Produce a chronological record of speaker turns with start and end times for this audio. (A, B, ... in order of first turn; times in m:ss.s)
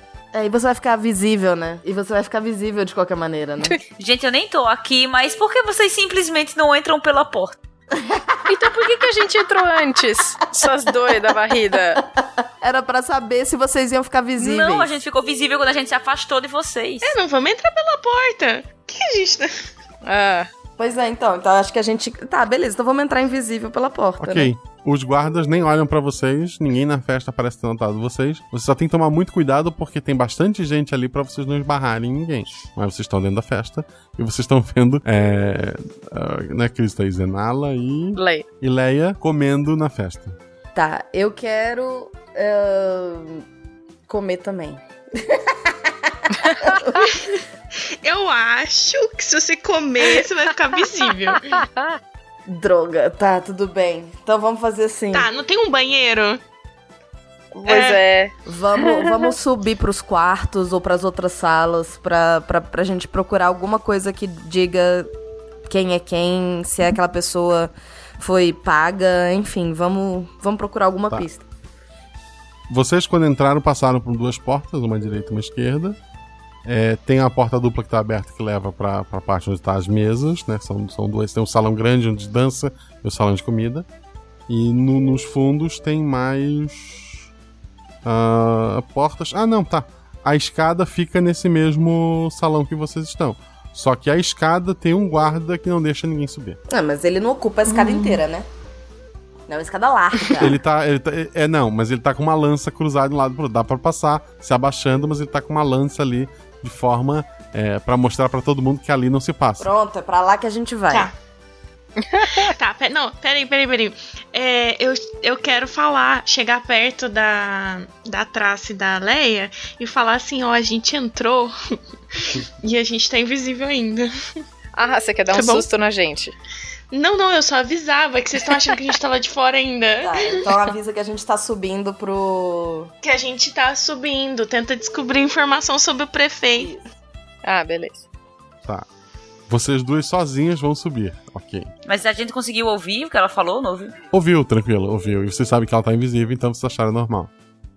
0:00.3-0:03.8 A
0:04.0-0:07.6 B
0:08.0-0:08.3 A
0:08.5-0:12.0 C
0:12.6-0:14.9 A
0:14.4-0:17.2 B
0:17.0-0:19.5 D
0:20.0-0:20.5 C
0:20.8-0:24.5 A
0:24.2-0:40.4 E
0:38.2-0:38.4 C
0:40.8-0:43.4 A
0:44.1-0:47.1 A
0:48.0-0:51.6 D
0:52.5-0:55.3 A
0:55.1-0:56.4 D
0:57.5-0:58.3 C
0:57.7-0:58.0 D
0:58.5-1:05.1 A
1:05.7-1:11.4 A
1:12.7-1:16.0 E
1:16.7-1:23.9 E
1:24.5-1:27.2 E
1:28.0-1:36.6 E
1:36.7-1:38.5 A
1:37.7-1:38.2 D
1:39.5-1:40.6 A
1:40.4-1:49.7 E
1:49.6-1:51.1 A
1:52.1-1:52.5 C
1:52.5-2:01.5 D
2:02.6-2:04.1 D
2:04.8-2:06.3 C
2:05.3-2:05.7 D
2:06.9-2:10.5 D
2:10.0-2:12.9 A
2:13.0-2:16.7 D
2:16.6-2:16.8 A
2:17.4-2:18.0 C
2:19.5-2:21.7 E
2:21.9-2:23.9 B
2:24.1-2:27.3 E